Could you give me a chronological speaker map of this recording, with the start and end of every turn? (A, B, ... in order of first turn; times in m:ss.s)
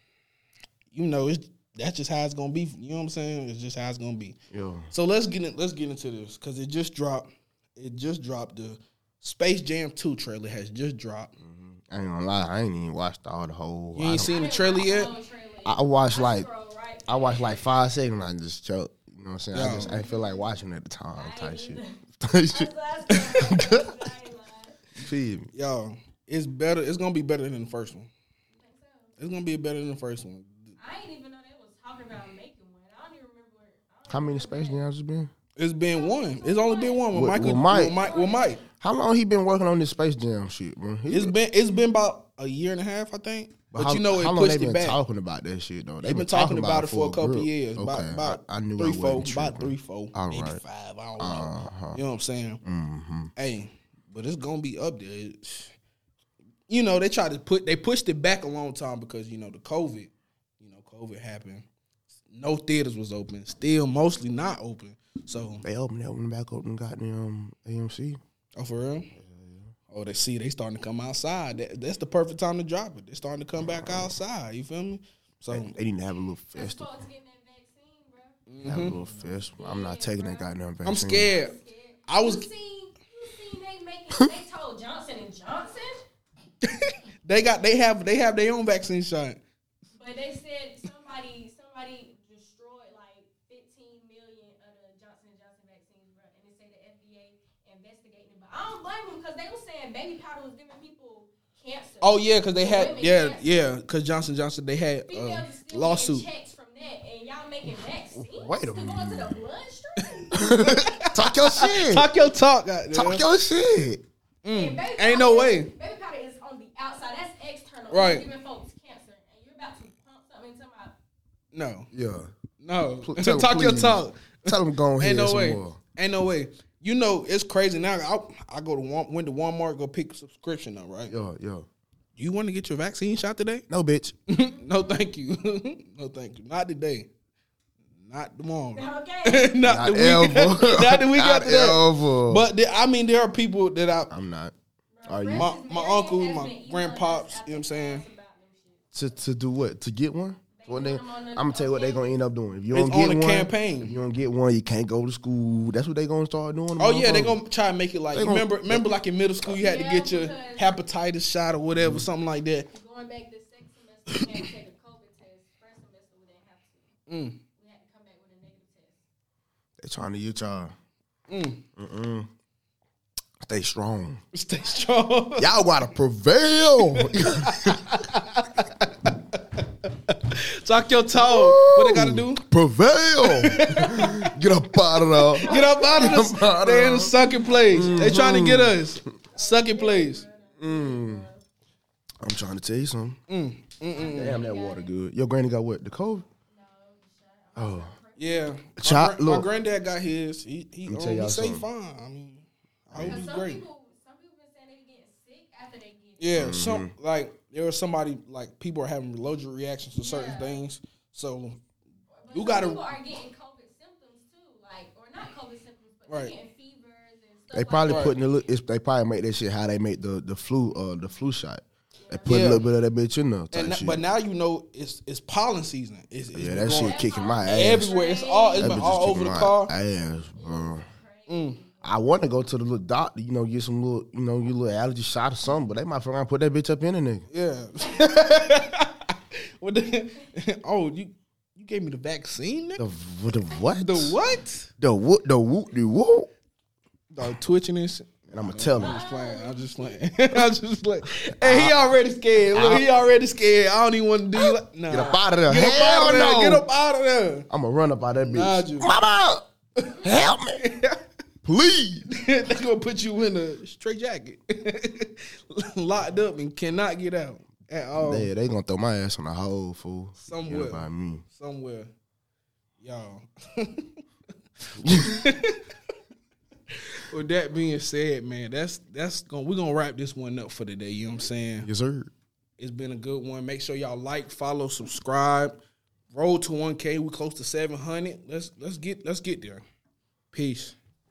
0:00.9-0:04.4 A
0:04.5-0:04.9 B
0:04.9-0:11.3 A
0:11.4-0:14.3 B
0:14.0-0:15.1 A
0:14.3-0:17.6 C
0:15.6-0:16.5 B
0:17.1-0:22.7 B
0:19.5-0:20.0 A
0:19.6-0:20.4 C
0:21.1-0:22.0 C
0:22.5-0:24.8 C
0:23.3-0:23.9 B
0:25.0-0:25.5 B
0:25.5-0:28.1 A
0:28.5-0:29.2 C
0:29.2-0:30.7 A
0:30.8-0:34.8 C
0:34.1-0:35.3 B
0:35.6-0:38.6 A
0:35.9-0:37.1 C
0:37.1-0:38.0 B
0:37.9-0:38.6 C
0:38.8-0:41.3 B
0:41.1-0:45.0 A
0:43.7-0:50.6 B
0:46.0-0:52.6 A
0:51.2-0:52.0 B
0:52.6-0:53.3 B
0:53.4-0:55.7 A
0:56.7-1:01.6 A
1:02.3-1:05.6 A
1:05.6-1:08.2 B
1:08.6-1:09.1 A
1:09.1-1:09.7 B
1:09.9-1:15.7 A
1:13.6-1:14.1 B
1:15.5-1:16.9 B
1:16.5-1:18.4 C
1:18.5-1:19.0 A
1:18.6-1:21.3 B
1:19.5-1:20.5 C
1:20.8-1:21.5 A
1:21.2-1:26.0 C
1:22.1-1:22.4 A
1:26.6-1:29.4 A
1:29.9-1:43.7 C
1:42.0-1:46.2 A
1:45.1-1:51.1 C
1:48.1-1:49.4 B
1:50.3-1:52.1 B
1:50.7-1:53.2 A
1:52.9-1:54.0 B
1:54.4-1:55.7 A
1:54.5-2:00.9 C
1:57.9-1:58.3 A
2:01.5-2:01.9 A
2:01.9-2:02.3 B
2:02.6-2:11.1 A
2:03.0-2:05.8 B
2:11.1-2:11.7 B
2:12.2-2:13.6 A
2:13.7-2:14.1 B
2:14.3-2:17.1 A
2:18.0-2:24.1 A
2:18.7-2:19.6 C
2:19.6-2:22.5 B
2:24.1-2:24.5 B
2:24.9-2:28.8 C
2:25.0-2:25.5 B
2:25.3-2:28.0 A
2:28.9-2:37.4 B
2:30.5-2:32.1 C
2:32.7-2:34.0 A
2:36.8-2:42.7 A
2:38.1-2:38.9 B
2:39.5-2:40.8 C
2:41.8-2:42.1 B
2:42.7-2:46.9 C
2:44.1-2:44.4 A
2:47.1-2:47.4 A
2:47.6-2:49.0 C
2:49.8-2:50.7 B
2:51.3-2:51.6 A
2:51.8-2:52.3 B
2:53.4-2:54.2 B
2:54.3-2:55.5 A
2:54.6-2:55.0 C
2:55.4-2:57.9 B
2:56.9-3:02.4 A
3:01.2-3:07.1 B
3:03.2-3:04.4 A
3:05.1-3:10.2 A
3:05.4-3:06.6 C
3:07.2-3:08.2 C
3:07.7-3:08.8 B
3:09.3-3:11.4 C
3:10.6-3:11.3 B
3:12.2-3:13.2 B
3:13.3-3:14.4 A
3:13.9-3:14.9 C
3:14.0-3:16.2 B
3:16.5-3:18.6 C
3:17.6-3:17.9 B
3:18.2-3:23.6 A
3:18.8-3:19.5 B
3:20.8-3:21.6 B
3:22.9-3:23.2 B
3:23.0-3:26.6 C
3:26.2-3:31.6 A
3:26.3-3:26.9 B
3:30.0-3:30.6 C
3:32.1-3:38.2 C
3:32.3-3:32.9 A
3:36.1-3:36.3 A
3:37.5-3:44.0 B
3:37.9-3:38.2 A
3:42.0-3:42.4 C
3:42.3-3:42.6 A
3:43.5-3:49.7 A
3:46.3-3:47.9 B
3:46.6-3:49.3 C
3:48.6-3:50.8 B
3:50.4-3:51.9 C
3:51.3-3:51.6 A
3:51.8-3:57.2 B
3:57.3-4:02.8 A
4:02.8-4:04.2 B
4:03.7-4:04.7 A
4:04.8-4:06.3 B
4:07.1-4:17.5 A
4:08.3-4:09.0 B
4:08.8-4:10.2 C
4:11.4-4:11.8 B
4:12.5-4:12.8 B
4:14.3-4:16.6 B
4:17.5-4:19.4 B
4:18.2-4:18.9 A
4:19.8-4:21.0 A
4:19.8-4:20.2 C
4:20.0-4:20.6 B
4:21.4-4:22.1 B
4:22.1-4:28.3 A
4:28.0-4:31.2 B
4:30.2-4:31.9 A
4:32.8-4:33.9 A
4:34.7-4:35.6 A
4:34.8-4:35.1 B
4:36.7-4:41.7 A
4:41.6-4:42.1 B
4:42.6-4:45.6 A
4:46.1-4:49.6 A
4:50.3-4:50.7 A